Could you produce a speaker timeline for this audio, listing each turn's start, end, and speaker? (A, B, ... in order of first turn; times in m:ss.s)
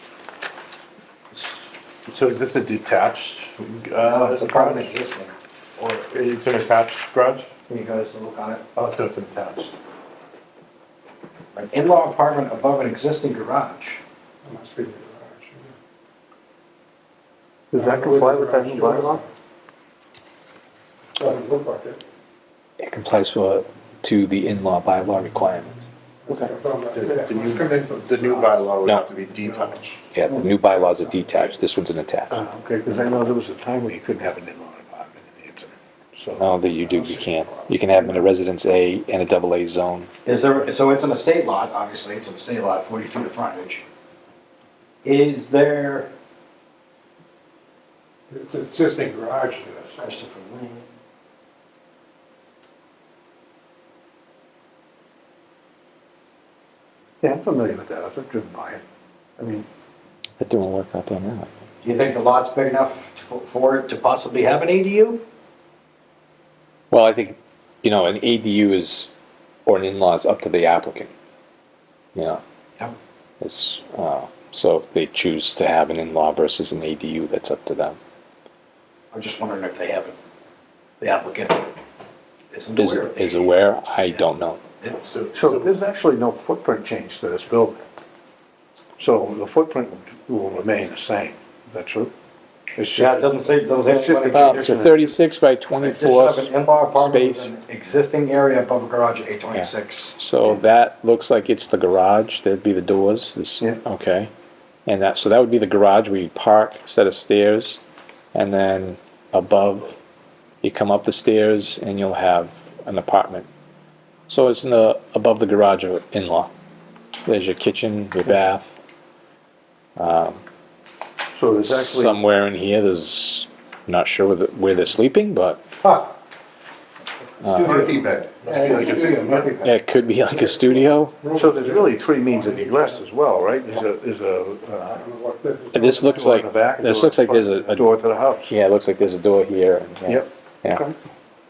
0:01.4-0:04.9 A
0:04.0-0:05.3 B
0:05.8-0:07.5 A
0:07.7-0:08.6 B
0:08.8-0:09.7 A
0:11.5-0:14.0 B
0:14.4-0:15.7 C
0:17.7-0:19.2 D
0:17.7-0:19.2 C
0:21.2-0:22.0 C
0:22.8-0:25.8 E
0:26.3-0:28.5 C
0:26.9-0:30.0 A
0:30.1-0:32.4 E
0:32.3-0:36.4 D
0:36.4-0:40.1 E
0:40.2-0:43.8 B
0:45.0-0:46.1 B
0:48.3-0:50.0 C
0:50.0-0:50.8 B
0:57.2-0:58.8 D
0:59.4-0:59.7 D
1:00.4-1:01.6 E
1:01.8-1:05.2 B
1:06.9-1:09.1 E
1:09.6-1:11.1 E
1:12.1-1:12.4 E
1:13.4-1:18.0 E
1:19.1-1:20.1 B
1:21.0-1:21.7 B
1:22.5-1:23.4 B
1:22.8-1:24.6 E
1:25.0-1:25.7 A
1:25.3-1:27.8 D
1:29.0-1:32.1 D
1:32.8-1:33.3 D
1:33.0-1:34.8 B
1:33.8-1:35.0 D
1:34.3-1:37.5 E
1:35.8-1:40.2 B
1:39.5-1:44.3 E
1:44.9-1:47.8 E
1:48.3-1:49.9 E
1:50.6-1:53.5 E
1:54.3-1:56.5 E
1:57.2-1:58.7 E
2:00.0-2:00.4 E
2:01.3-2:02.2 D
2:01.6-2:05.6 E
2:07.4-2:07.9 E
2:07.6-2:08.2 D
2:08.4-2:09.5 A
2:08.5-2:09.6 B
2:08.6-2:09.5 C
2:09.6-2:11.2 E
2:11.2-2:13.0 C
2:11.3-2:15.1 D
2:15.0-2:15.9 C
2:15.7-2:17.8 E
2:15.9-2:18.5 D
2:18.4-2:20.8 E
2:20.1-2:20.9 D